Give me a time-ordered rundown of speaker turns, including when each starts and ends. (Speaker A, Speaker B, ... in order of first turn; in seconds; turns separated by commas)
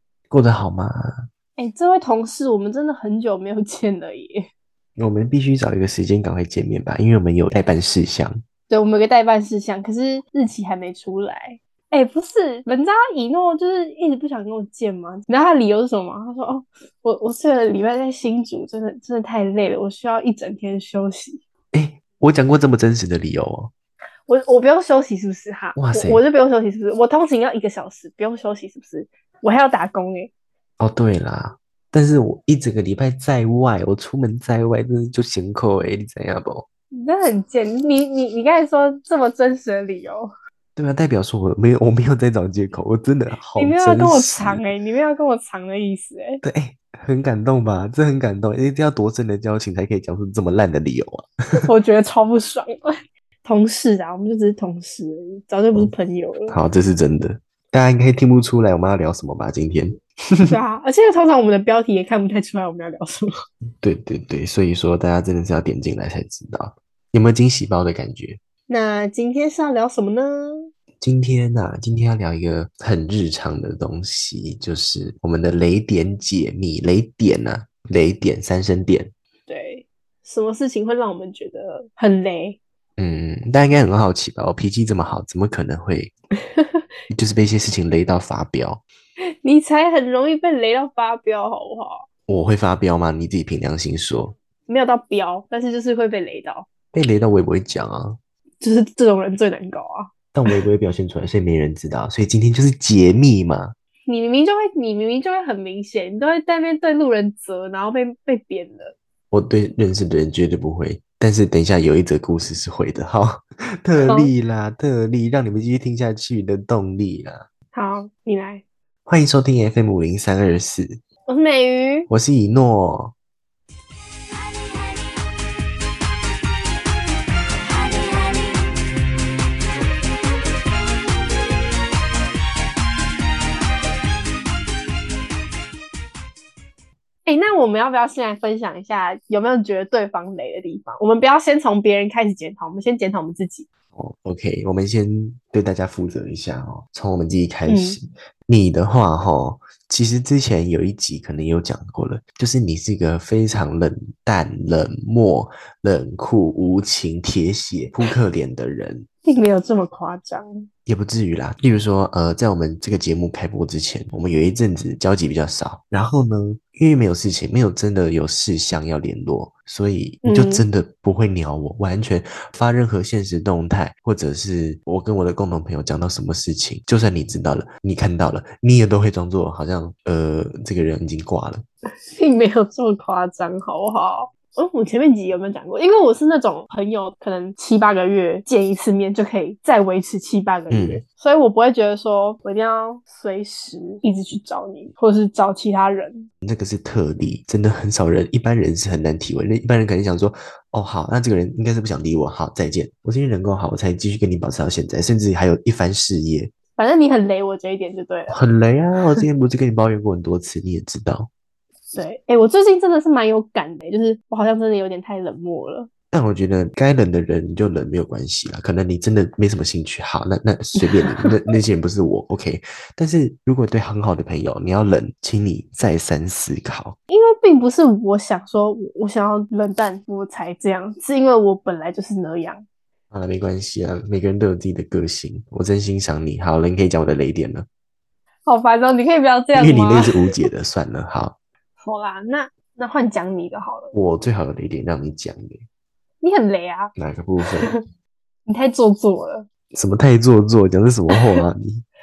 Speaker A: 0.3-1.3, Speaker B: 1.6-4.5, Speaker A: 5.0-8.4, Speaker B: 8.7-21.4, Speaker A: 21.7-23.7, Speaker B: 24.3-30.3, Speaker A: 25.8-26.2, Speaker A: 30.8-36.7, Speaker B: 36.9-40.3, Speaker A: 40.8-44.6, Speaker B: 43.6-46.4, Speaker A: 46.4-51.7, Speaker B: 51.6-56.6, Speaker A: 56.5-60.6, Speaker B: 60.5-63.3, Speaker A: 63.8-68.4, Speaker B: 68.7-70.7, Speaker A: 71.0-79.1, Speaker B: 79.5-82.6, Speaker A: 83.0-86.1, Speaker A: 87.1-88.8, Speaker B: 89.4-92.1, Speaker A: 92.3-94.3, Speaker B: 94.7-96.7, Speaker A: 96.9-98.2, Speaker B: 98.6-100.6, Speaker A: 100.3-103.8, Speaker B: 104.1-109.0, Speaker A: 109.3-117.5, Speaker B: 114.0-114.3, Speaker B: 117.7-118.6, Speaker A: 119.1-121.0, Speaker B: 121.3-122.1, Speaker A: 122.1-123.1, Speaker B: 137.3-143.7, Speaker A: 143.9-159.1, Speaker B: 147.7-148.0, Speaker B: 159.2-160.7, Speaker A: 160.9-181.7, Speaker B: 170.2-170.7, Speaker B: 182.1-196.3, Speaker A: 190.7-191.0, Speaker A: 196.4-206.5, Speaker B: 206.8-208.4, Speaker A: 208.3-211.3, Speaker B: 211.9-215.9, Speaker A: 216.1-227.0, Speaker B: 220.8-221.3, Speaker B: 227.1-232.7, Speaker A: 233.1-237.7, Speaker B: 238.5-240.3, Speaker A: 239.6-241.4, Speaker B: 241.8-243.9, Speaker A: 243.9-245.7, Speaker B: 246.2-246.9, Speaker A: 247.0-247.8, Speaker B: 248.5-249.5, Speaker A: 249.7-251.8